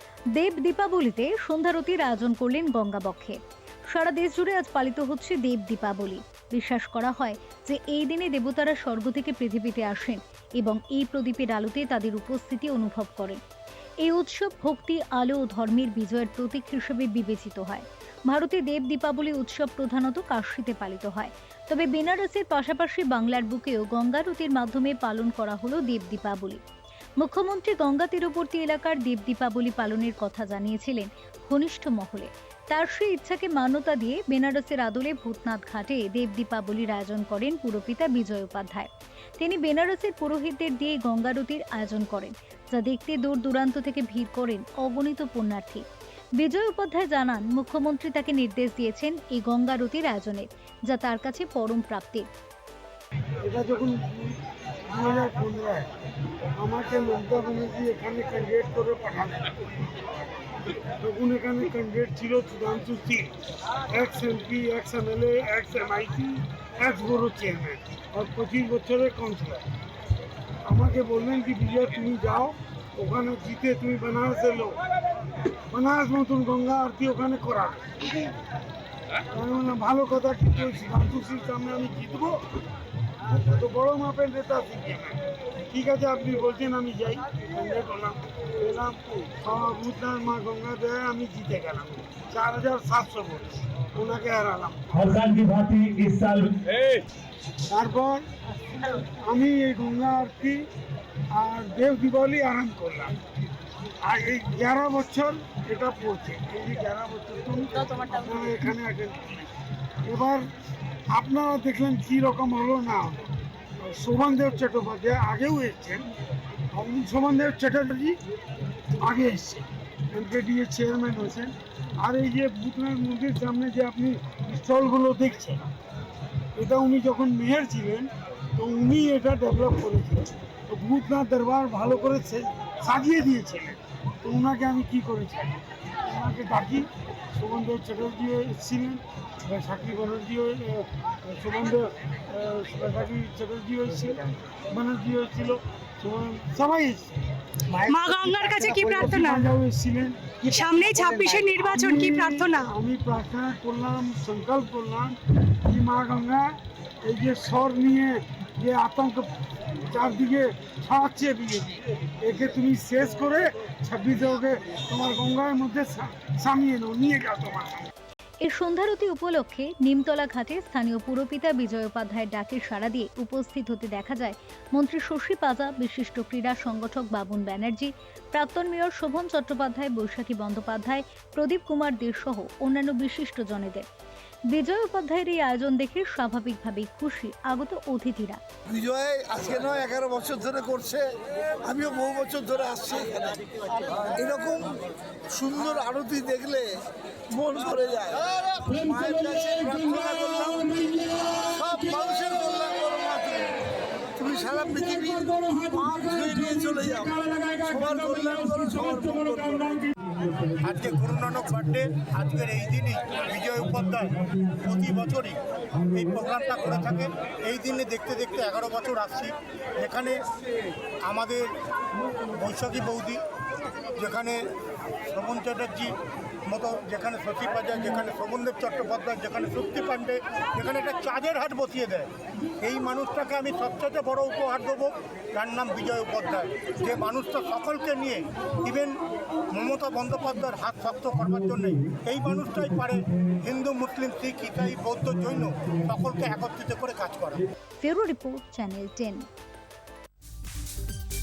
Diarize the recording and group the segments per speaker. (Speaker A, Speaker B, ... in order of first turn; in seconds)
Speaker A: 0.3-3.4, 3.9-13.4, 14.0-26.6, 27.2-45.8, 46.4-52.3, 168.4-183.8, 184.5-188.4, 247.8-249.2
Speaker B: 53.4-55.9, 56.6-59.5, 61.0-63.3, 63.9-69.7, 70.6-74.8, 75.7-78.0, 79.3-82.4, 83.3-94.9, 97.7-98.2, 98.8-100.7, 101.3-103.1, 104.0-109.5, 110.0-110.4, 111.1-113.2, 113.8-116.0, 116.7-118.2, 119.0-125.6, 126.5-147.1, 148.8-159.3, 159.9-167.9
Speaker C: 95.0-96.6, 210.5-220.2, 221.1-221.5, 222.3-223.2, 223.9-224.4, 225.1-225.9, 226.5-247.4
Speaker D: 147.9-149.5, 150.5-152.7
Speaker E: 188.7-191.1, 191.6-193.4, 194.2-194.8, 195.3-196.8, 197.3-203.5, 204.2-209.9